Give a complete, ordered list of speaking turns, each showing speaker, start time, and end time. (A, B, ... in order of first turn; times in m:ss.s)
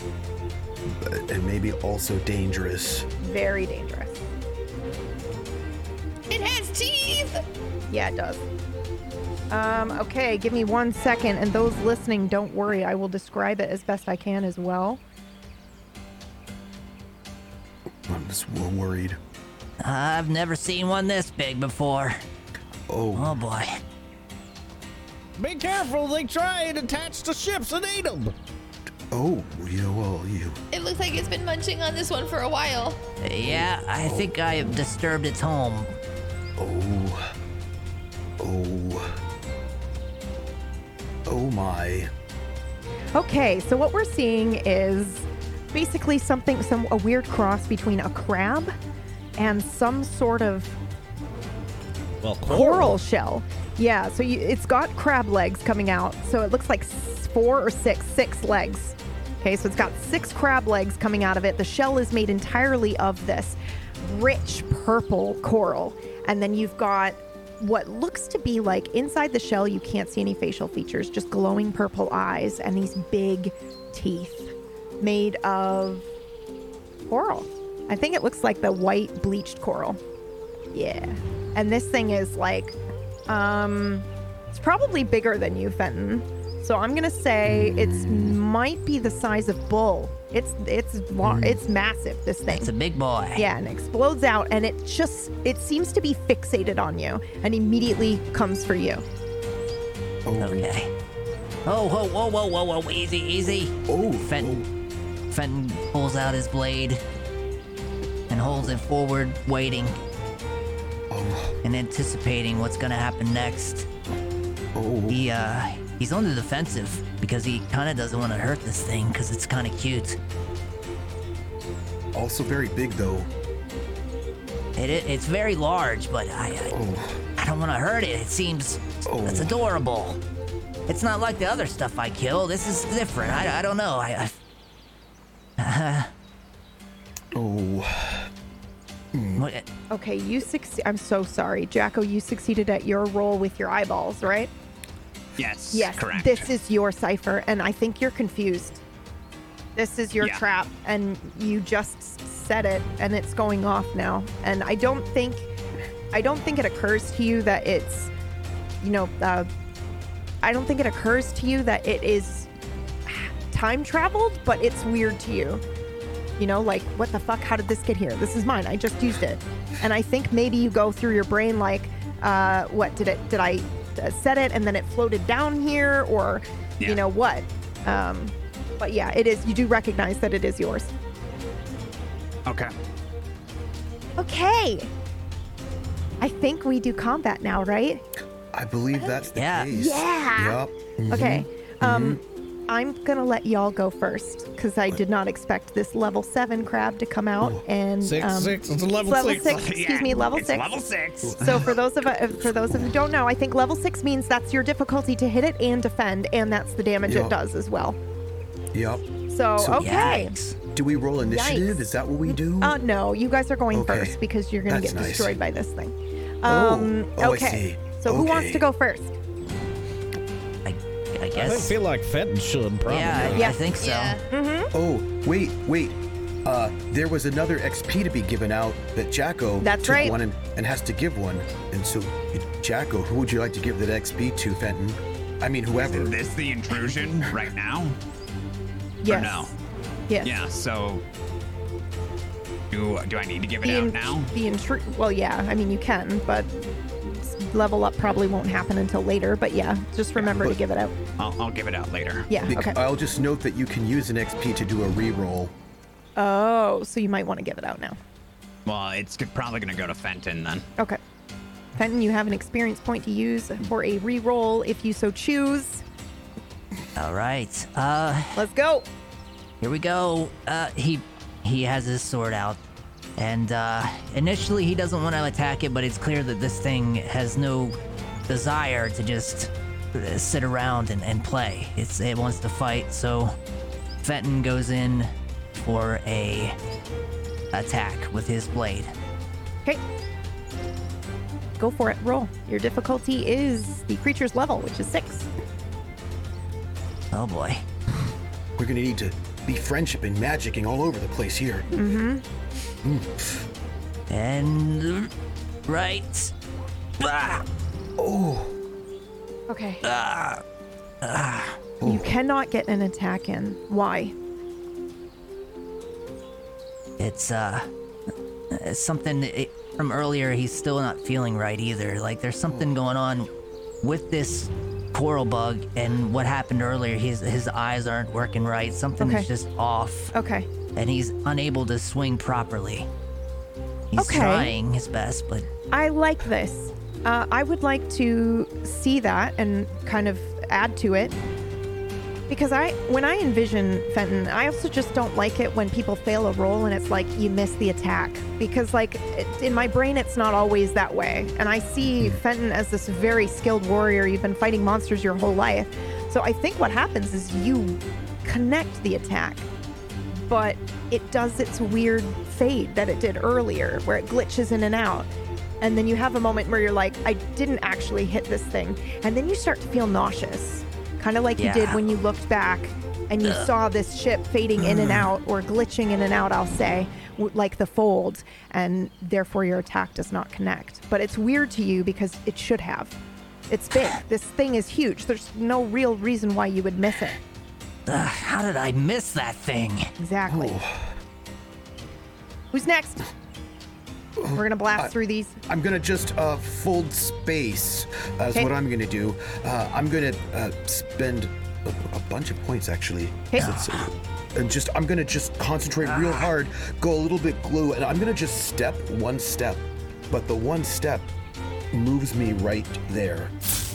0:00.9-0:03.1 A
0:03.2-0:04.2 B
0:06.3-0:07.4 C
0:07.9-0:08.4 B
0:09.5-0:15.0 B
0:18.1-0:19.2 A
0:19.8-0:22.2 D
0:22.9-0:23.4 A
0:23.2-0:23.8 D
0:25.4-0:28.3 E
0:29.1-0:30.6 A
0:30.7-0:33.0 C
0:33.2-0:36.0 D
0:34.0-0:34.3 A
0:36.6-0:37.3 A
0:38.4-0:39.2 A
0:41.3-0:42.1 A
0:43.1-0:48.7 B
0:49.4-0:50.8 B
0:52.2-0:53.0 E
0:52.4-1:16.1 B
1:17.1-1:20.0 B
1:20.7-1:22.8 B
1:23.3-1:32.7 B
1:27.4-1:28.4 A
1:31.2-1:31.6 A
1:32.5-1:33.5 D
1:33.3-1:39.0 B
1:40.2-1:40.7 A
1:40.4-1:40.9 D
1:41.6-1:44.6 D
1:43.9-1:44.7 A
1:45.3-1:47.0 D
1:48.3-1:50.0 D
1:51.1-1:51.6 A
1:51.6-1:53.9 D
1:54.7-1:55.2 A
1:55.1-2:00.2 D
2:02.1-2:03.3 A
2:04.8-2:06.8 D
2:06.7-2:07.2 A
2:07.4-2:10.2 D
2:09.0-2:09.6 A
2:10.9-2:14.4 D
2:15.6-2:16.1 D
2:17.3-2:18.3 A
2:19.1-2:19.5 A
2:19.4-2:19.6 D
2:19.9-2:24.5 B
2:25.4-2:26.5 F
2:25.7-2:28.8 B
2:29.8-2:35.5 B
2:36.1-2:38.1 B
2:38.8-2:39.5 B
2:40.4-2:42.5 B
2:43.0-2:45.6 B
2:46.4-3:00.9 B
3:02.5-3:02.7 F
3:04.2-3:04.9 B
3:06.2-3:08.0 B
3:08.5-3:12.2 A
3:09.4-3:09.7 D
3:09.7-3:20.7 B
3:18.0-3:19.6 E
3:19.2-3:21.8 F
3:21.2-3:21.8 A
3:21.4-3:28.0 B
3:27.0-3:27.3 A
3:28.7-3:29.0 A
3:29.3-3:30.3 B
3:29.6-3:29.9 A
3:29.8-3:30.6 D
3:30.7-3:32.8 A
3:31.2-3:39.1 B
3:33.7-3:35.4 A
3:36.4-3:38.7 A
3:40.6-3:41.7 D
3:41.3-3:43.6 E
3:42.8-3:44.2 D
3:43.3-3:43.6 B
3:43.8-3:44.2 C
3:44.3-3:44.7 B
3:44.7-3:56.1 A
3:49.6-3:50.2 B
3:55.8-3:58.0 F
3:59.0-3:59.5 B
3:59.0-3:59.5 F
4:00.2-4:01.0 F
4:02.7-4:04.3 F
4:03.6-4:10.9 B
4:10.2-4:10.6 A
4:11.2-4:12.3 F
4:12.3-4:12.8 B
4:12.5-4:15.5 A
4:16.2-4:18.0 B
4:18.6-4:20.7 F
4:21.8-4:25.8 B
4:27.0-4:28.4 D
4:28.4-4:28.9 B
4:29.6-4:32.6 D
4:33.2-4:37.8 D
4:38.3-4:43.3 D
4:44.0-4:46.6 D
4:47.5-4:48.9 D
4:51.6-4:55.3 B
4:57.1-4:57.6 D
4:58.6-5:01.7 A
5:01.7-5:02.2 B
5:02.8-5:03.4 A
5:04.1-5:05.1 D
5:05.7-5:06.3 D
5:07.0-5:07.4 D
5:08.0-5:08.5 A
5:09.5-5:09.8 B
5:09.8-5:10.4 D
5:11.0-5:11.7 D
5:11.8-5:12.1 A
5:11.8-5:14.1 B
5:17.0-5:17.7 D
5:18.5-5:23.3 D
5:23.8-5:30.1 D
5:29.0-5:29.3 B
5:30.1-5:30.5 B
5:30.8-5:32.9 D
5:33.9-5:35.4 D
5:34.0-5:34.6 B
5:35.7-5:41.2 B
5:42.3-5:59.5 B
5:51.8-5:52.2 A
6:00.2-6:05.1 B
6:05.6-6:23.0 B
6:11.4-6:11.8 D
6:14.6-6:15.0 D
6:23.5-6:27.2 B
6:27.9-6:29.9 D
6:30.0-6:30.6 B
6:30.3-6:30.9 A
6:32.5-6:33.1 B
6:34.2-6:34.9 A
6:34.3-6:35.4 B
6:35.5-6:51.1 A
6:43.3-6:43.6 B
6:43.4-6:43.9 D
6:45.9-6:46.2 D
6:51.7-6:53.3 A